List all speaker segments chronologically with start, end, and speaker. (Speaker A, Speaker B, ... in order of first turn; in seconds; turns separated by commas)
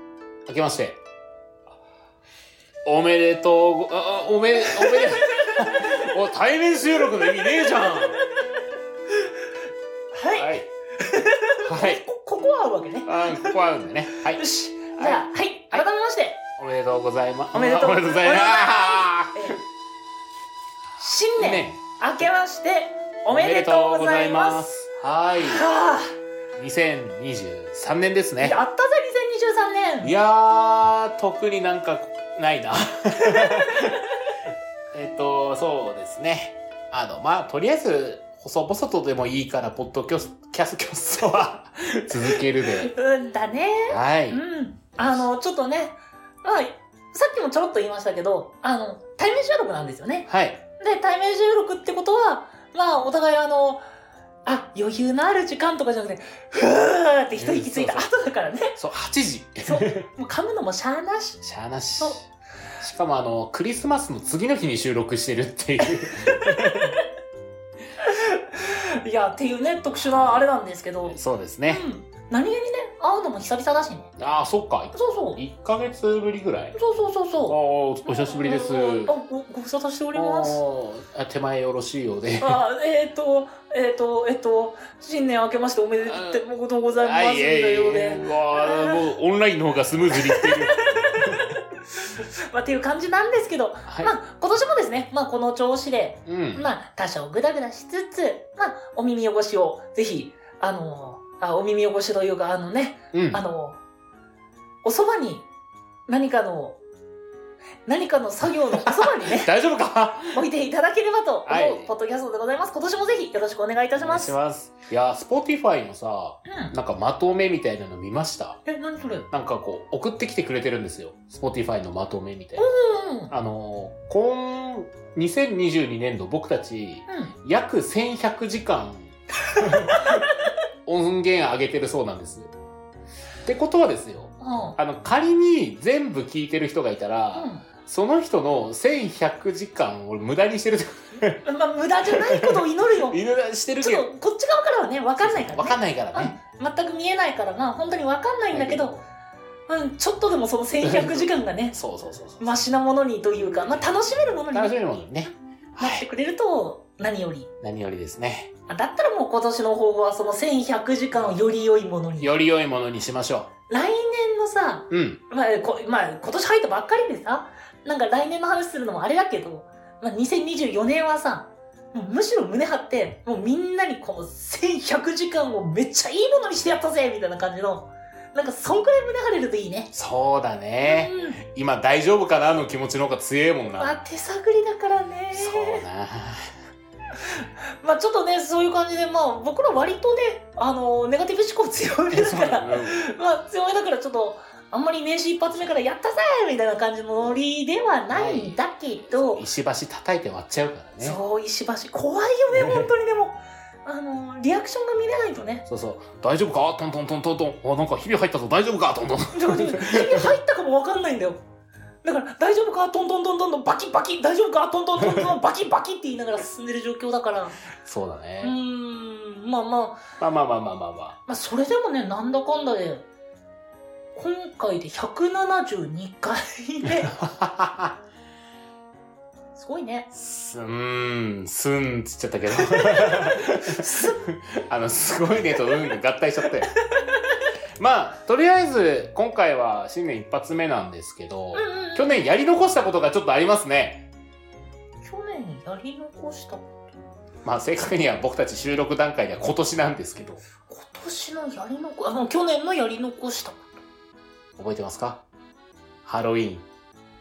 Speaker A: 0.5-1.0, Speaker A: 2.8-8.2, Speaker B: 10.1-13.6, Speaker A: 10.3-10.7, Speaker A: 11.6-12.0, Speaker A: 13.0-14.4, Speaker B: 14.3-16.4, Speaker A: 14.9-15.8, Speaker A: 16.6-19.5, Speaker B: 17.5-19.6, Speaker B: 21.0-24.6, Speaker A: 21.4-21.8, Speaker A: 23.3-25.7, Speaker B: 25.4-26.1, Speaker A: 26.6-28.6, Speaker B: 28.4-30.1, Speaker A: 30.0-34.0, Speaker B: 33.3-33.9, Speaker A: 34.9-42.9, Speaker B: 42.2-50.3, Speaker A: 43.9-44.4, Speaker A: 45.0-45.2, Speaker A: 50.3-50.6, Speaker B: 50.8-53.8, Speaker B: 54.5-58.8, Speaker A: 57.3-58.1, Speaker A: 58.8-60.0, Speaker B: 59.6-61.4, Speaker A: 61.4-62.3, Speaker A: 62.8-67.0, Speaker B: 68.0-74.1, Speaker A: 70.0-70.5, Speaker A: 71.1-71.8, Speaker A: 74.2-76.8, Speaker B: 74.9-75.4, Speaker B: 76.7-80.6, Speaker A: 77.5-79.1, Speaker A: 80.1-82.6, Speaker B: 82.4-89.0, Speaker A: 86.0-86.4, Speaker A: 87.0-91.4, Speaker B: 90.1-91.5, Speaker B: 92.2-103.8, Speaker A: 93.9-94.1, Speaker A: 96.2-96.7, Speaker A: 103.1-103.4, Speaker B: 104.8-105.5, Speaker B: 106.1-106.8, Speaker B: 107.8-109.5, Speaker A: 108.8-110.4, Speaker B: 110.3-114.3, Speaker A: 111.5-111.9, Speaker A: 114.0-118.6, Speaker B: 116.5-116.7, Speaker B: 118.7-119.3, Speaker A: 119.3-122.7, Speaker B: 122.6-123.3, Speaker A: 123.3-130.2, Speaker B: 127.1-127.3, Speaker B: 129.5-130.2, Speaker A: 130.8-132.5, Speaker A: 133.4-141.4, Speaker B: 134.4-134.8, Speaker B: 137.3-137.7, Speaker B: 141.4-143.2, Speaker A: 142.1-144.1, Speaker B: 143.8-148.9, Speaker A: 145.2-146.3, Speaker A: 148.5-149.0, Speaker B: 149.7-151.8, Speaker A: 150.8-152.5, Speaker B: 152.4-154.8, Speaker A: 154.5-156.1, Speaker B: 155.8-157.5, Speaker A: 157.6-158.5, Speaker B: 158.7-162.3, Speaker A: 162.2-163.5, Speaker B: 163.7-179.9, Speaker A: 164.9-165.2, Speaker A: 179.9-184.0, Speaker B: 180.8-181.4, Speaker B: 183.8-185.8, Speaker A: 185.3-186.5, Speaker B: 187.2-199.4, Speaker A: 192.1-193.0, Speaker A: 198.1-201.2, Speaker B: 201.0-205.7, Speaker A: 202.5-202.9, Speaker A: 205.7-210.3, Speaker B: 209.3-211.4, Speaker B: 212.0-217.6, Speaker A: 215.0-215.3, Speaker A: 217.8-218.6, Speaker B: 218.4-220.0, Speaker A: 220.2-221.2, Speaker B: 221.3-223.0, Speaker B: 224.1-227.1, Speaker A: 226.8-228.0, Speaker B: 229.5-230.1, Speaker A: 230.1-236.7, Speaker B: 232.7-234.2, Speaker A: 237.8-244.1, Speaker B: 241.5-242.3, Speaker B: 245.0-246.7, Speaker A: 247.4-250.4, Speaker B: 250.7-253.7, Speaker A: 254.6-255.2, Speaker A: 256.0-256.6